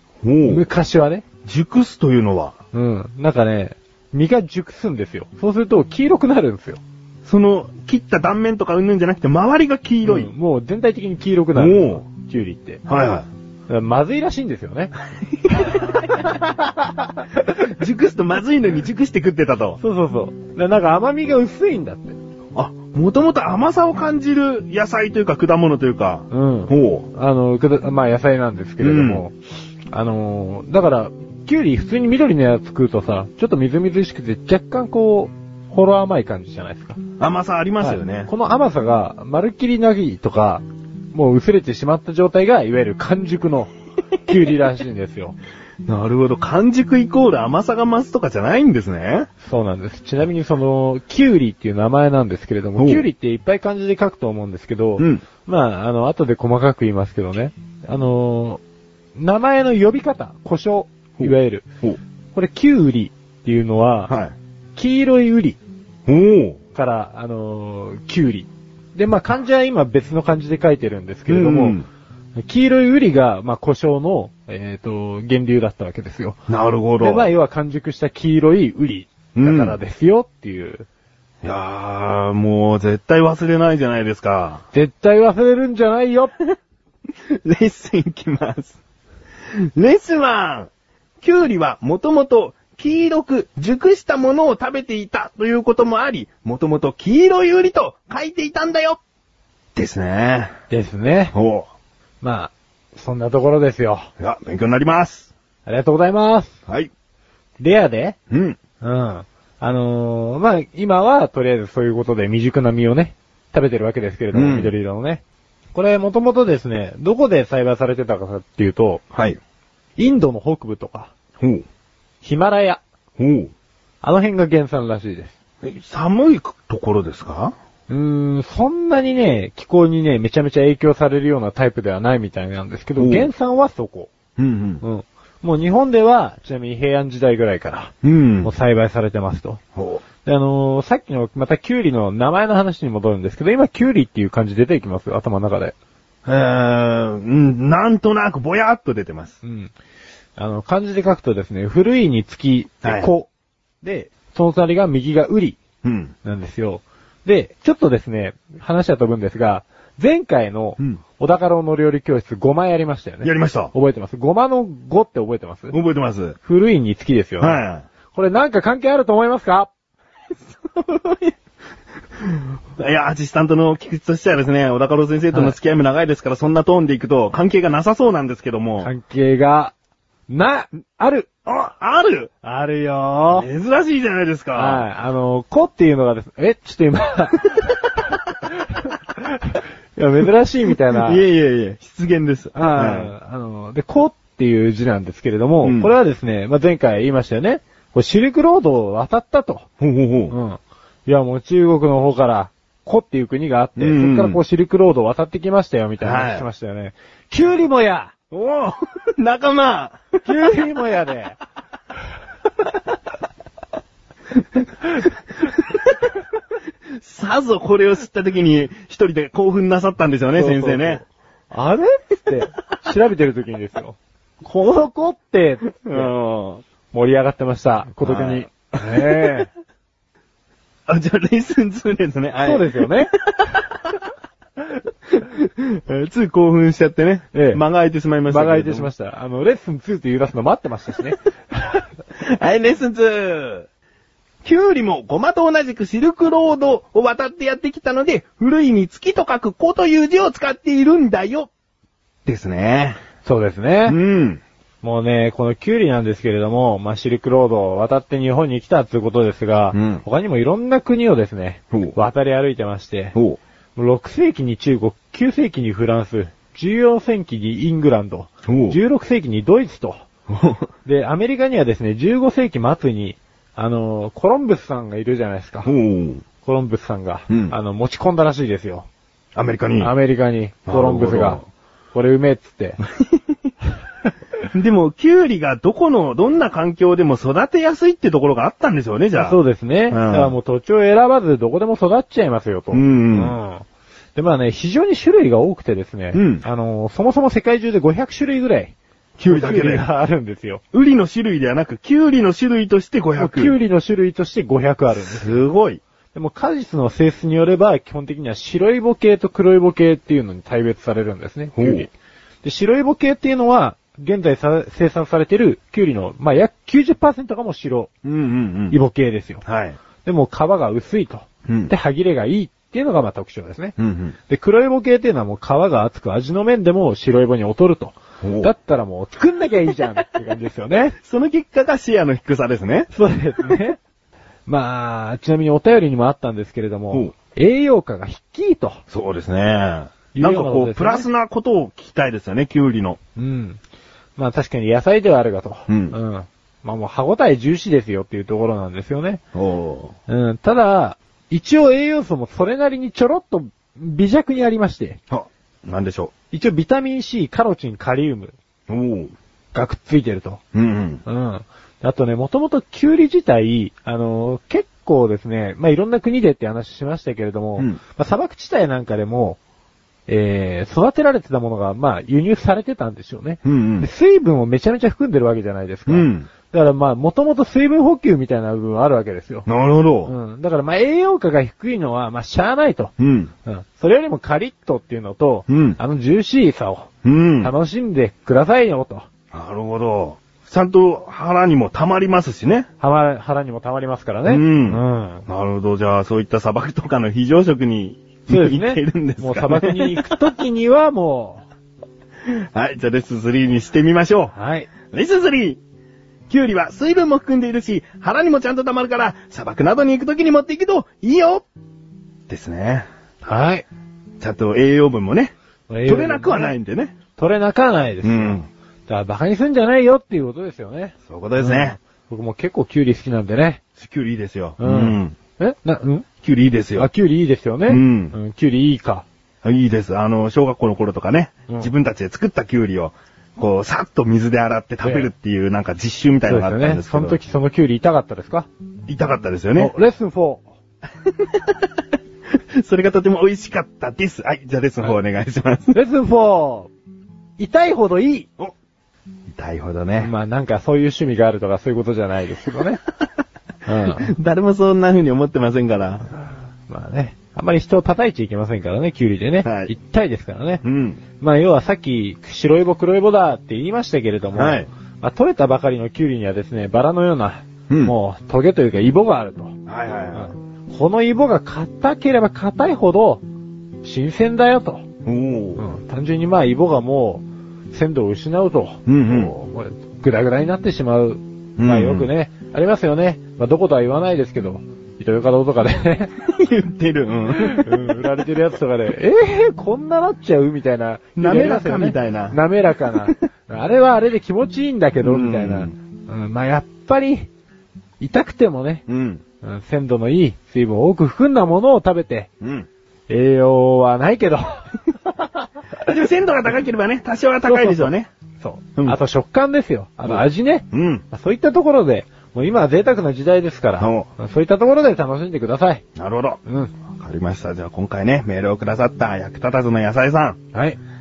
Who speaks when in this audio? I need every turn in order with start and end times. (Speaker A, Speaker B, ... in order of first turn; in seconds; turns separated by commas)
Speaker A: 0.2-0.6, Speaker B: 0.5-1.2, Speaker A: 1.4-2.5, Speaker B: 2.7-6.8, Speaker A: 7.2-10.3, Speaker B: 10.0-12.8, Speaker A: 11.5-12.0, Speaker A: 12.8-13.3, Speaker B: 13.7-14.9, Speaker A: 15.3-16.4, Speaker B: 15.6-17.1, Speaker A: 17.6-19.8, Speaker B: 19.8-22.2, Speaker A: 22.5-27.1, Speaker B: 26.3-29.3, Speaker A: 28.8-29.2, Speaker B: 29.9-37.0, Speaker A: 37.2-38.3, Speaker B: 37.8-43.7, Speaker B: 44.2-45.4, Speaker A: 45.8-49.3, Speaker B: 49.4-58.6, Speaker A: 52.8-53.0, Speaker A: 55.0-55.2, Speaker B: 59.1-61.6, Speaker A: 61.2-62.0, Speaker B: 62.3-64.1, Speaker A: 64.1-64.3, Speaker B: 64.8-65.6, Speaker A: 66.1-66.6, Speaker B: 66.7-71.8, Speaker A: 71.3-71.8, Speaker B: 72.4-76.4, Speaker A: 76.5-77.3, Speaker B: 77.0-80.9, Speaker A: 79.3-79.8, Speaker A: 81.4-84.6, Speaker B: 84.7-86.3, Speaker A: 87.3-88.8, Speaker A: 89.6-90.7, Speaker A: 91.2-99.0, Speaker A: 99.7-100.5, Speaker B: 100.7-101.3, Speaker A: 101.3-101.7, Speaker B: 102.2-104.1, Speaker A: 104.2-105.3, Speaker B: 105.7-106.5, Speaker B: 107.6-108.2, Speaker A: 108.3-108.6, Speaker B: 108.8-115.2, Speaker A: 114.3-114.7, Speaker B: 115.7-119.0, Speaker A: 119.1-119.4, Speaker B: 120.0-121.1, Speaker A: 121.4-121.6, Speaker B: 122.2-122.8, Speaker A: 123.2-123.5, Speaker B: 124.0-125.3, Speaker A: 125.6-127.5, Speaker B: 127.9-134.1, Speaker A: 133.0-133.3, Speaker A: 134.4-134.8, Speaker B: 134.8-139.6, Speaker A: 138.0-138.5, Speaker A: 139.8-140.0, Speaker B: 140.2-145.7, Speaker A: 146.2-149.4, Speaker B: 149.4-149.7, Speaker B: 150.4-153.3, Speaker A: 152.8-153.1, Speaker B: 153.8-155.6, Speaker A: 155.8-156.1, Speaker B: 156.2-165.8, Speaker A: 163.2-163.7, Speaker A: 165.7-166.4, Speaker B: 166.4-167.6, Speaker A: 167.4-167.8, Speaker B: 168.1-169.7, Speaker A: 170.4-171.3, Speaker A: 172.2-178.9, Speaker B: 178.8-179.7, Speaker B: 180.3-181.3, Speaker A: 181.4-182.3, Speaker B: 182.4-183.5, Speaker A: 183.3-184.8, Speaker B: 184.5-187.7, Speaker B: 188.8-191.2, Speaker A: 190.9-193.1, Speaker B: 192.5-199.7, Speaker A: 195.6-195.9, Speaker A: 199.8-200.3, Speaker B: 200.3-208.1, Speaker A: 203.8-204.4, Speaker A: 206.0-206.4, Speaker A: 208.3-210.4, Speaker B: 210.2-211.4, Speaker A: 215.4-215.9, Speaker A: 217.0-221.0, Speaker B: 220.3-226.1, Speaker A: 225.8-226.6, Speaker B: 226.9-229.5, Speaker A: 228.0-229.0, Speaker A: 230.9-233.9, Speaker B: 232.4-233.1, Speaker A: 235.1-238.9, Speaker B: 237.3-237.6, Speaker B: 238.3-241.8, Speaker A: 242.1-243.7, Speaker A: 244.4-251.5, Speaker A: 252.2-253.0, Speaker B: 253.2-254.0, Speaker A: 253.8-254.4, Speaker B: 254.8-263.1, Speaker A: 259.7-260.0, Speaker B: 263.8-270.0, Speaker A: 268.5-268.8, Speaker A: 270.3-270.7, Speaker B: 270.8-275.7, Speaker A: 275.6-276.2, Speaker B: 276.4-278.9, Speaker A: 277.3-277.5, Speaker A: 279.3-279.9, Speaker B: 279.8-281.4, Speaker A: 280.7-281.4, Speaker B: 281.9-282.8, Speaker A: 284.5-289.4, Speaker B: 289.1-298.7, Speaker A: 289.9-290.3, Speaker A: 292.7-293.4, Speaker A: 296.1-296.4, Speaker A: 299.2-299.9, Speaker B: 299.3-300.6, Speaker A: 300.7-303.6, Speaker B: 303.1-305.4, Speaker A: 305.0-305.8, Speaker B: 306.1-311.9, Speaker A: 311.6-311.9, Speaker B: 312.4-317.9, Speaker A: 318.0-318.8, Speaker B: 318.7-319.4, Speaker A: 319.4-319.8, Speaker B: 320.0-323.7, Speaker A: 321.5-321.7, Speaker A: 323.8-324.1, Speaker B: 324.3-330.9, Speaker A: 328.2-328.5, Speaker A: 331.0-332.9, Speaker B: 332.9-333.8, Speaker B: 334.5-338.8, Speaker A: 338.9-343.0, Speaker B: 340.1-341.1, Speaker B: 343.1-343.6, Speaker B: 344.2-349.2, Speaker A: 345.7-346.0, Speaker A: 349.3-349.9, Speaker B: 350.1-355.0, Speaker A: 355.1-356.1, Speaker B: 356.3-358.3, Speaker A: 358.7-359.1, Speaker B: 359.5-360.4, Speaker A: 360.5-361.0, Speaker B: 361.0-369.4, Speaker B: 370.1-379.5, Speaker A: 373.4-373.9, Speaker A: 375.9-376.3, Speaker A: 379.4-380.1, Speaker B: 380.1-382.9, Speaker A: 383.0-383.3, Speaker B: 383.4-389.1, Speaker A: 385.5-385.8, Speaker A: 387.0-387.5, Speaker A: 389.3-392.7, Speaker B: 392.8-395.2, Speaker A: 394.2-400.1, Speaker B: 398.3-401.4, Speaker A: 402.2-404.3, Speaker B: 404.3-404.7, Speaker A: 404.9-405.6, Speaker A: 406.3-411.4, Speaker A: 412.3-412.9, Speaker B: 413.2-413.6, Speaker A: 414.2-415.3, Speaker B: 415.7-416.5, Speaker A: 415.9-417.0, Speaker B: 417.2-423.6, Speaker A: 418.0-418.5, Speaker A: 421.1-421.8, Speaker A: 423.8-425.2, Speaker B: 424.6-426.1, Speaker A: 426.2-426.9, Speaker B: 426.8-429.0, Speaker A: 427.7-428.1, Speaker A: 429.4-437.2, Speaker B: 434.8-435.1, Speaker B: 436.2-438.5, Speaker A: 438.9-439.7, Speaker B: 439.6-440.5, Speaker A: 441.0-441.6, Speaker A: 442.3-445.8, Speaker B: 445.7-446.7, Speaker B: 447.4-448.3, Speaker A: 449.3-450.1, Speaker B: 450.0-452.8, Speaker B: 453.6-454.1, Speaker A: 454.0-456.1, Speaker B: 456.7-460.6, Speaker A: 459.4-459.7, Speaker A: 460.6-461.0, Speaker B: 461.2-469.5, Speaker A: 464.3-464.7, Speaker A: 467.7-467.9, Speaker A: 469.6-470.3, Speaker B: 470.1-473.2, Speaker B: 473.8-474.8, Speaker A: 475.0-475.6, Speaker B: 475.6-486.1, Speaker A: 478.9-479.3, Speaker A: 481.6-482.1, Speaker A: 486.2-488.0, Speaker B: 487.3-497.3, Speaker A: 491.2-492.4, Speaker A: 495.0-495.7, Speaker B: 498.0-498.8, Speaker A: 498.9-499.2, Speaker B: 499.4-502.3, Speaker A: 502.4-502.7, Speaker B: 503.1-504.8, Speaker A: 505.8-508.1, Speaker B: 507.4-507.9, Speaker B: 508.4-515.8, Speaker A: 510.0-511.0, Speaker A: 513.8-514.1, Speaker A: 516.0-520.4, Speaker B: 516.4-516.7